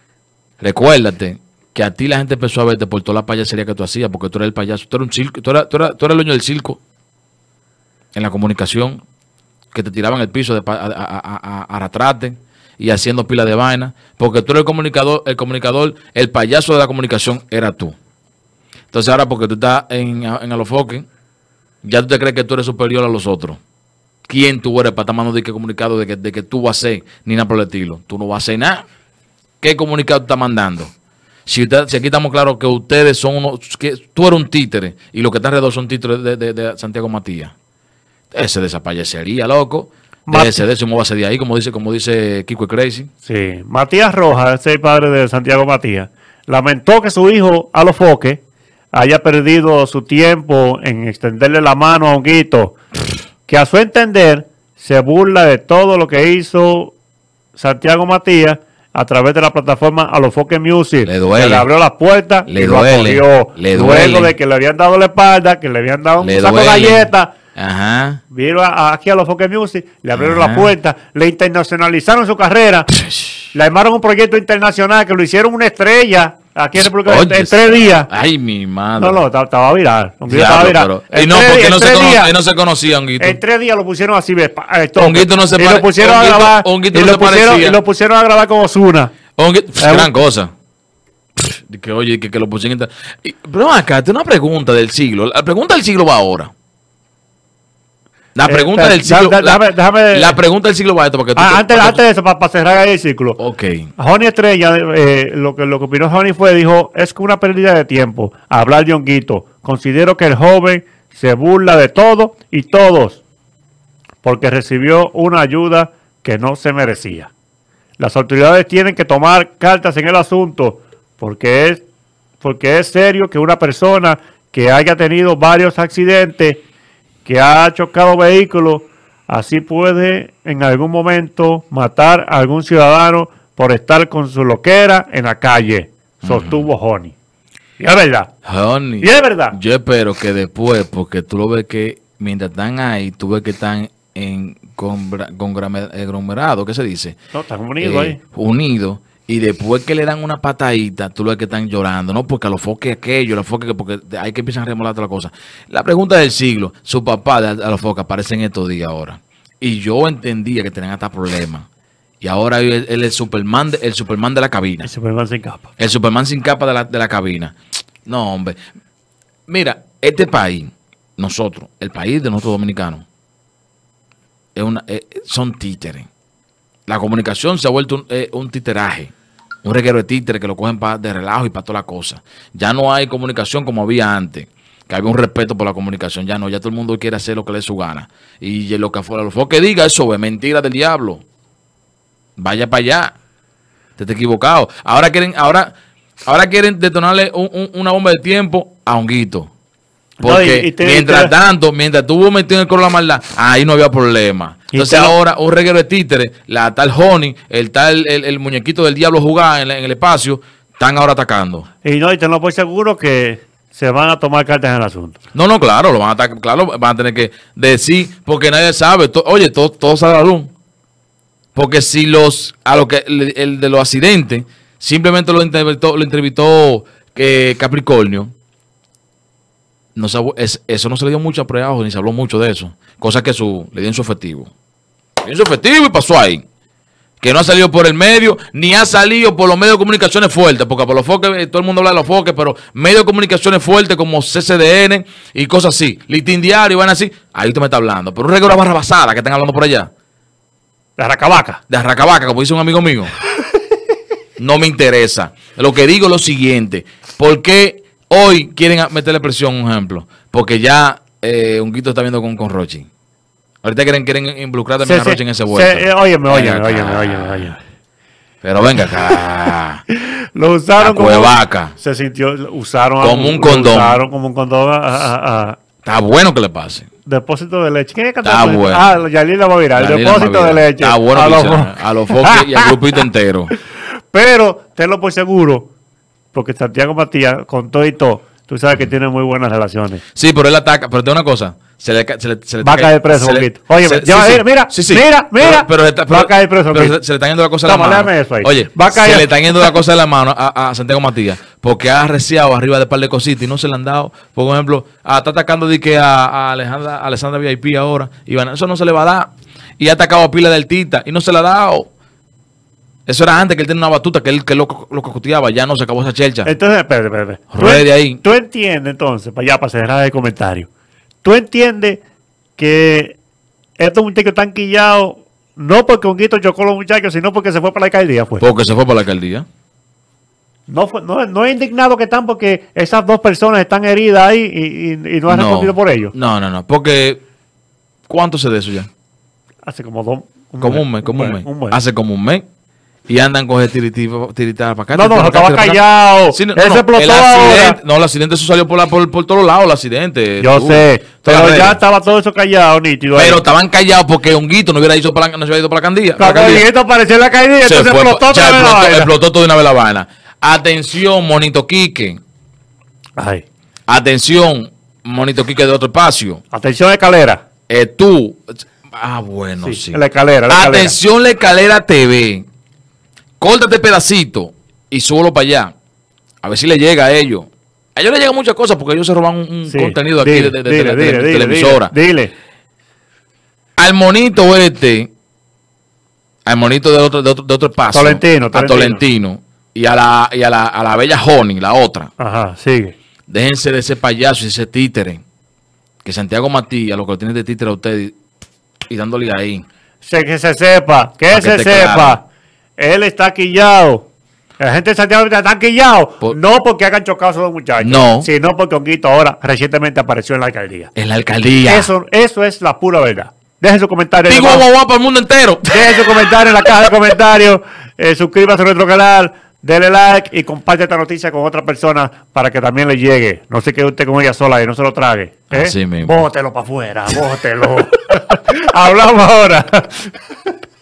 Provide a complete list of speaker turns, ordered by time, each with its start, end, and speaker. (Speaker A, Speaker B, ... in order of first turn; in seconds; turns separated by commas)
Speaker A: 0.6-6.8, Speaker A: 8.1-9.0, Speaker A: 9.7-17.9, Speaker A: 18.9-21.1, Speaker A: 21.8-23.6, Speaker A: 24.3-28.8, Speaker A: 29.6-30.9, Speaker A: 31.5-37.5, Speaker A: 38.3-43.1, Speaker B: 40.3-40.7, Speaker B: 43.2-48.4, Speaker B: 48.9-52.8, Speaker B: 53.5-56.9, Speaker B: 57.6-67.3, Speaker A: 61.0-61.7, Speaker A: 62.5-64.3, Speaker A: 66.2-68.2, Speaker B: 68.3-72.9, Speaker A: 70.2-70.7, Speaker A: 72.9-73.5, Speaker B: 73.5-78.1, Speaker A: 76.9-79.2, Speaker B: 79.0-82.3, Speaker A: 80.3-83.4, Speaker B: 83.2-89.1, Speaker A: 85.0-87.8, Speaker A: 89.4-90.5, Speaker B: 89.8-90.1, Speaker A: 91.4-96.5, Speaker A: 98.3-102.0, Speaker B: 98.5-100.4, Speaker B: 101.3-103.4, Speaker A: 103.4-103.9, Speaker B: 104.0-113.2, Speaker B: 114.2-117.3, Speaker B: 118.0-121.8, Speaker B: 122.4-126.6, Speaker B: 127.2-137.2, Speaker A: 136.2-136.7, Speaker B: 137.8-138.3, Speaker A: 138.4-147.2, Speaker B: 139.0-139.6, Speaker B: 147.3-148.2, Speaker A: 147.8-161.7, Speaker A: 162.2-164.9, Speaker B: 164.8-165.7, Speaker A: 165.8-167.5, Speaker A: 168.1-168.6, Speaker A: 169.5-173.1, Speaker A: 174.6-176.1, Speaker A: 176.9-179.1, Speaker A: 179.7-191.2, Speaker A: 192.4-193.1, Speaker A: 194.0-195.7, Speaker A: 196.3-199.5, Speaker B: 200.2-201.3, Speaker A: 200.2-211.7, Speaker B: 204.7-205.2, Speaker B: 211.8-215.2, Speaker A: 215.3-220.5, Speaker A: 221.6-228.3, Speaker A: 229.9-234.5, Speaker A: 235.2-236.4, Speaker A: 237.2-249.9, Speaker B: 251.0-251.6, Speaker A: 251.7-253.1, Speaker A: 254.4-262.9, Speaker A: 263.6-267.5, Speaker B: 264.8-267.6, Speaker A: 268.4-269.8, Speaker B: 269.9-275.6, Speaker A: 270.8-271.7, Speaker A: 273.0-274.0, Speaker A: 275.8-276.9, Speaker B: 277.1-283.0, Speaker A: 278.2-278.8, Speaker A: 279.8-283.5, Speaker B: 283.6-285.7, Speaker B: 286.3-290.0, Speaker A: 290.1-311.9, Speaker B: 292.6-296.9, Speaker B: 297.6-299.7, Speaker A: 313.1-316.5, Speaker B: 316.4-320.7, Speaker A: 317.5-318.2, Speaker B: 321.2-322.0, Speaker B: 322.6-323.2, Speaker B: 323.8-328.4, Speaker A: 328.4-329.4, Speaker B: 330.7-336.1, Speaker A: 335.3-337.2, Speaker A: 338.1-338.9, Speaker B: 339.7-341.8, Speaker A: 340.6-342.4, Speaker A: 343.1-351.8, Speaker B: 344.9-347.8, Speaker B: 350.4-353.4, Speaker A: 353.1-356.6, Speaker B: 356.2-359.1, Speaker A: 357.6-362.2, Speaker B: 363.2-363.4, Speaker A: 363.9-366.4, Speaker B: 366.5-367.4, Speaker A: 367.7-372.4, Speaker B: 369.6-370.9, Speaker A: 373.4-375.7, Speaker A: 376.4-381.9, Speaker B: 379.7-382.3, Speaker A: 383.8-385.1, Speaker A: 386.5-392.1, Speaker B: 387.9-389.0, Speaker B: 392.2-392.9, Speaker A: 393.3-395.2, Speaker A: 396.0-398.2, Speaker A: 398.9-399.6, Speaker B: 400.0-402.2, Speaker A: 401.3-402.2, Speaker B: 402.8-404.1, Speaker B: 404.6-410.9, Speaker A: 407.8-408.3, Speaker A: 410.9-411.9, Speaker B: 411.7-414.6, Speaker A: 414.3-416.3, Speaker B: 415.7-430.2, Speaker A: 425.5-426.2